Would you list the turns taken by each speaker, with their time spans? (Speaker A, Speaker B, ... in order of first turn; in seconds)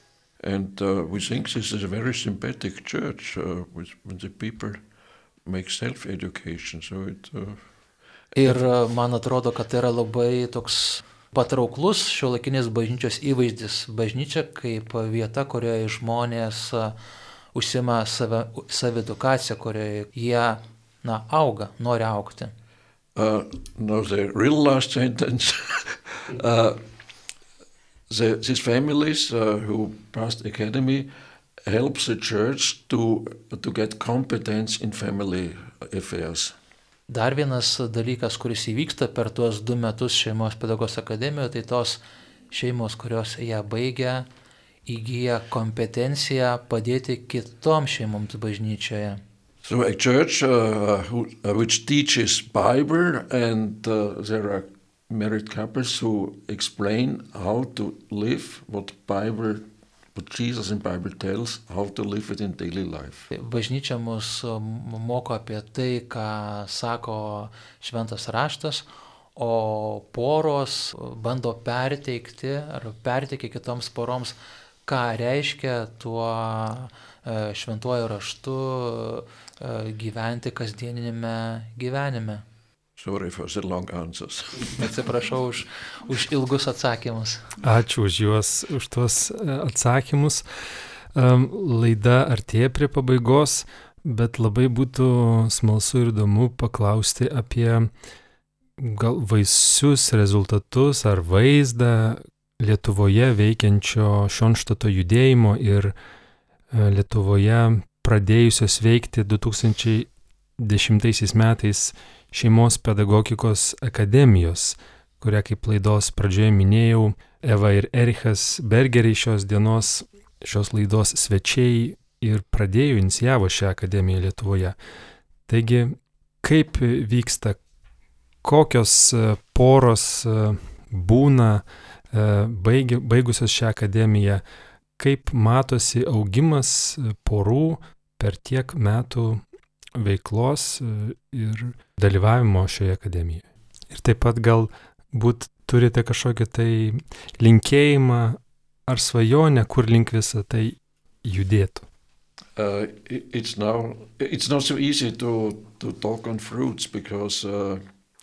Speaker A: 0.4-4.8, 5.4-7.6, 23.1-26.8, 28.1-31.1, 31.6-36.5, 49.6-63.3, 83.0-84.8, 152.5-157.8
Speaker B: 8.3-16.9, 17.5-22.5, 37.1-44.3, 44.9-49.2, 63.3-82.4, 84.8-87.5
Speaker C: 87.6-97.9, 98.8-105.9, 106.7-124.8, 125.5-127.6, 128.4-134.4, 135.0-139.4, 139.9-151.8